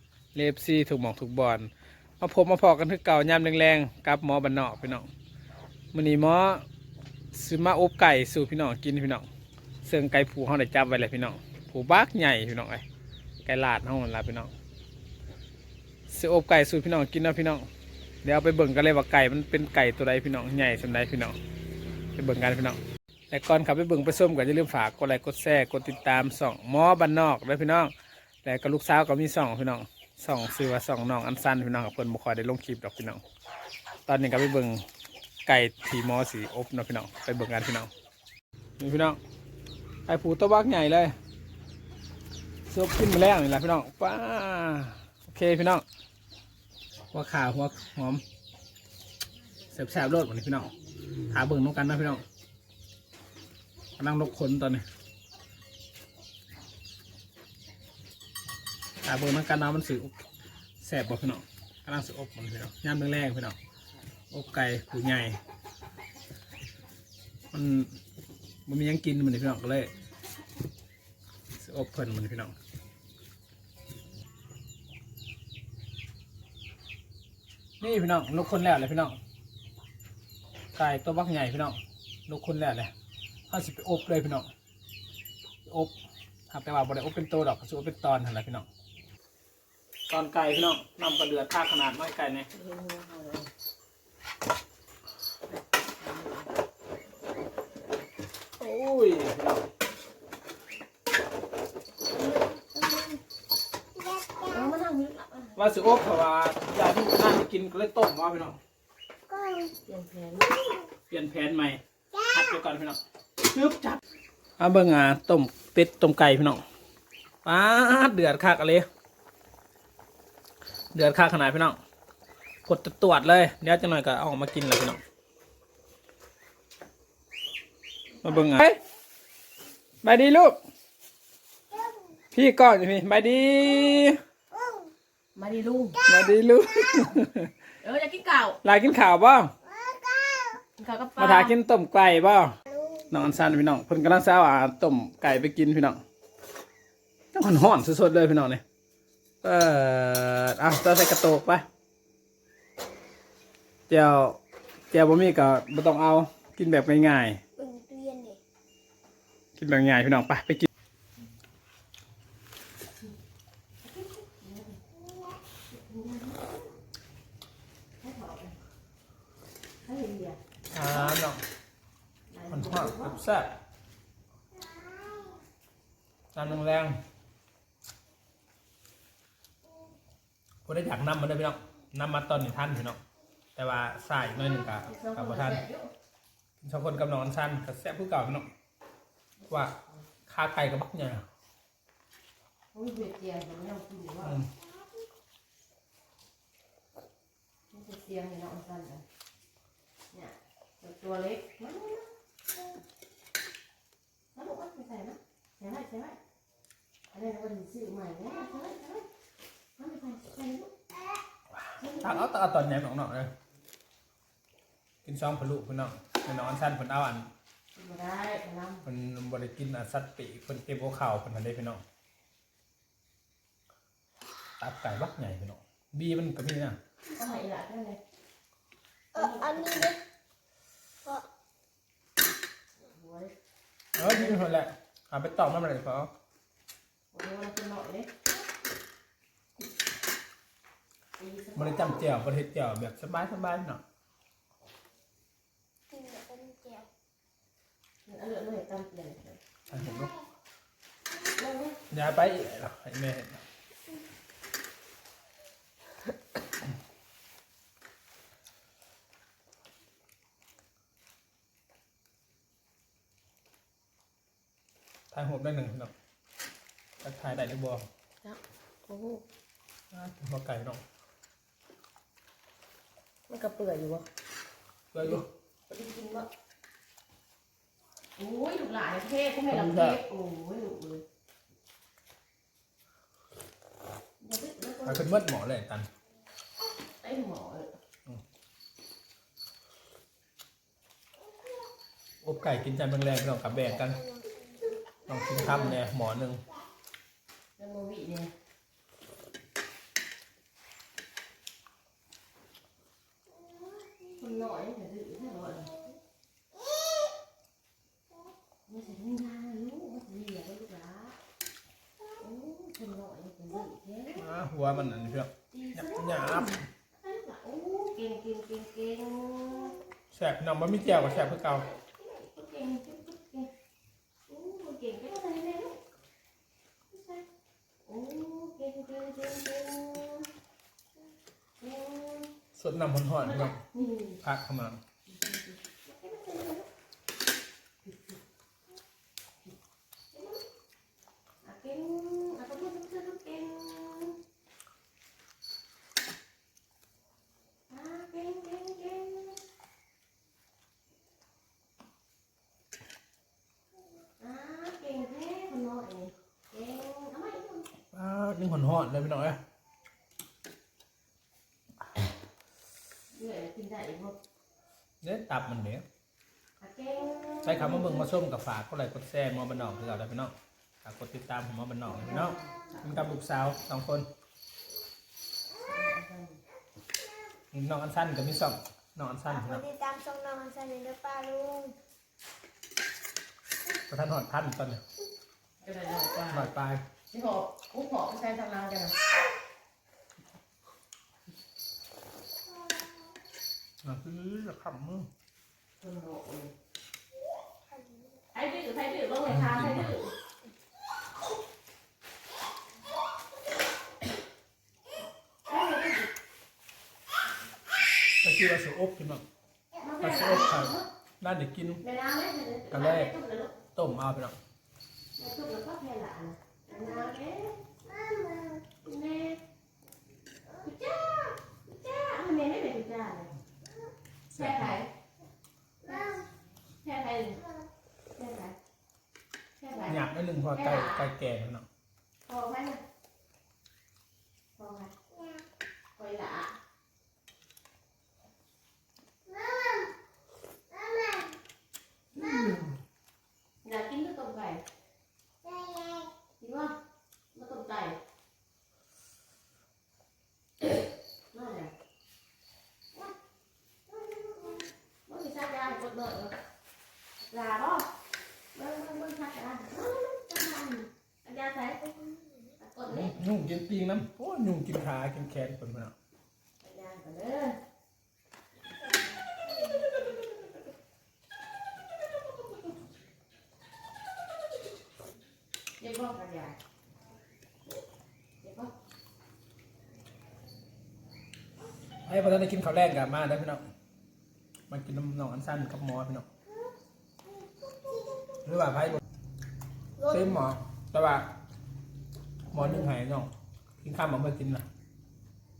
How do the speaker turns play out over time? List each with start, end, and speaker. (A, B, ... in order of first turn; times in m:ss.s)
0:00.3-0:05.1 A
0:05.9-0:06.6 A
0:07.3-0:09.2 A
0:09.8-0:12.8 A
0:13.4-0:14.5 A
0:16.1-0:17.7 A
0:18.2-0:21.4 A
0:22.1-0:27.9 A
0:28.4-0:33.2 A
0:34.0-0:34.8 A
0:35.4-0:37.9 A
0:38.8-0:39.2 A
0:40.0-0:41.1 A
0:42.7-0:45.8 A
0:47.1-0:48.2 A
0:49.7-0:50.7 A
0:51.3-0:52.2 A
0:54.0-0:54.8 A
0:59.0-1:00.1 A
1:00.8-1:03.6 A
1:04.3-1:05.4 A
1:07.5-1:07.9 A
1:08.6-1:09.9 A
1:11.6-1:12.5 A
1:17.8-1:19.2 A
1:20.8-1:22.9 A
1:23.5-1:24.5 A
1:25.6-1:25.9 A
1:26.5-1:28.7 A
1:30.1-1:32.5 A
1:32.5-1:33.5 B
1:35.5-1:36.5 B
1:38.6-1:39.7 A
1:42.1-1:43.2 B
1:44.0-1:44.5 C
1:44.4-1:45.6 B
1:45.6-1:48.6 A
1:49.3-1:49.7 C
1:49.8-1:50.6 B
1:51.1-1:54.0 A
1:54.6-1:56.6 A
1:57.4-1:58.9 A
2:00.9-2:01.8 A
2:02.6-2:05.0 A
2:08.2-2:08.8 A
2:10.0-2:10.6 A
2:12.3-2:14.2 A
2:15.3-2:16.0 B
2:16.0-2:17.5 A
2:17.8-2:18.6 B
2:18.6-2:19.5 A
2:20.0-2:20.5 C
2:20.8-2:21.5 B
2:21.2-2:22.6 A
2:22.7-2:23.0 C
2:23.1-2:26.0 A
2:27.3-2:28.6 A
2:29.4-2:31.6 A
2:33.9-2:34.4 A
2:34.9-2:37.4 A
2:37.5-2:38.4 C
2:39.5-2:40.7 A
2:43.8-2:44.8 B
2:45.7-2:46.6 B
2:48.0-2:48.6 B
2:49.8-2:51.2 B
2:50.7-2:51.4 A
2:52.3-2:53.2 B
2:52.5-2:53.6 A
2:54.6-2:55.4 C
2:56.3-2:57.0 A
3:00.6-3:03.0 A
3:03.6-3:05.6 A
3:04.8-3:05.9 B
3:06.6-3:08.5 A
3:09.4-3:09.9 B
3:10.3-3:11.2 A
3:12.7-3:14.4 B
3:14.2-3:14.5 A
3:17.7-3:19.0 B
3:20.1-3:22.1 B
3:24.3-3:26.2 B
3:27.1-3:29.0 B
3:29.8-3:30.7 B
3:31.8-3:32.3 B
3:32.0-3:33.3 A
3:35.0-3:37.3 A
3:37.7-3:38.8 B
3:38.8-3:41.8 A
3:44.6-3:46.8 A
3:47.1-3:48.0 B
3:49.1-3:50.0 B
3:49.3-3:50.0 C
3:52.8-3:53.3 B
3:54.0-3:56.1 A
3:54.0-3:54.4 B
3:57.1-3:58.1 B
4:01.2-4:02.1 B
4:01.5-4:03.8 A
4:05.9-4:06.9 C
4:08.0-4:09.4 B
4:09.7-4:10.1 A
4:11.2-4:11.8 B
4:11.9-4:13.4 A
4:25.1-4:25.9 A
4:27.0-4:27.9 A
4:28.2-4:29.2 B
4:29.9-4:30.8 A
4:33.3-4:34.1 B
4:34.9-4:35.2 A
4:35.0-4:36.3 B
4:38.2-4:41.0 B
4:39.5-4:40.0 A
4:44.2-4:45.1 B
4:44.8-4:45.9 A
4:47.0-4:47.7 B
4:52.2-4:54.0 A
4:54.1-4:54.6 C
4:55.1-4:56.4 A
4:55.3-4:55.8 B
4:57.6-4:58.3 B
5:04.2-5:05.9 B
5:08.7-5:11.2 B
5:12.2-5:14.3 B
5:14.1-5:16.6 A
5:15.5-5:19.8 B
5:20.1-5:21.7 A
5:21.0-5:23.5 B
5:24.3-5:25.8 B
5:26.9-5:27.2 B
5:27.8-5:30.3 B
5:31.6-5:32.3 B
5:32.5-5:33.6 A
5:33.2-5:34.2 B
5:34.2-5:34.8 A
5:35.1-5:36.7 B
5:37.8-5:38.2 B
5:40.1-5:40.4 B
5:41.4-5:44.2 B
5:47.7-5:49.4 B
5:54.2-5:57.7 B
5:57.9-5:59.4 A
6:03.1-6:04.2 B
6:05.0-6:05.8 A
6:06.6-6:08.1 B
6:07.4-6:14.1 A
6:11.8-6:12.9 B
6:15.6-6:16.4 B
6:17.5-6:19.6 A
6:19.4-6:21.8 C
6:23.9-6:24.8 A
6:25.6-6:26.5 B
6:26.3-6:26.8 A
6:27.1-6:29.0 B
6:33.8-6:35.1 A
6:35.8-6:36.5 B
6:38.3-6:40.1 B
6:39.3-6:39.9 A
6:45.4-6:46.1 B
6:48.2-6:49.2 A
6:49.8-6:50.9 B
6:50.0-6:51.8 A
6:51.8-6:53.6 B
6:52.7-6:53.1 A
6:53.7-6:54.4 A
6:55.2-6:57.6 B
6:58.0-6:58.6 C
6:58.8-6:59.4 B
7:00.6-7:03.3 B
7:04.3-7:04.8 A
7:04.3-7:04.9 B
7:05.8-7:06.2 B
7:06.8-7:07.5 B
7:08.1-7:08.6 B
7:09.6-7:11.1 B
7:09.8-7:11.7 A
7:12.2-7:12.8 B
7:14.6-7:14.9 B
7:16.0-7:16.5 B
7:19.3-7:19.9 C
7:20.7-7:21.3 C
7:22.1-7:22.7 A
7:23.6-7:24.6 B
7:25.4-7:26.1 C
7:26.4-7:26.8 B
7:27.3-7:28.0 B
7:30.6-7:31.7 B
7:33.9-7:36.4 B
7:37.3-7:37.9 B
7:38.5-7:43.2 B
7:42.9-7:45.9 A
7:46.6-7:47.6 B
7:49.5-7:50.0 C
7:55.8-7:56.6 B
7:58.4-7:58.7 B
8:02.0-8:03.6 A
8:04.7-8:06.3 A
8:07.6-8:08.4 C
8:08.4-8:09.0 A
8:10.0-8:11.3 A
8:12.5-8:14.7 A
8:12.5-8:12.9 B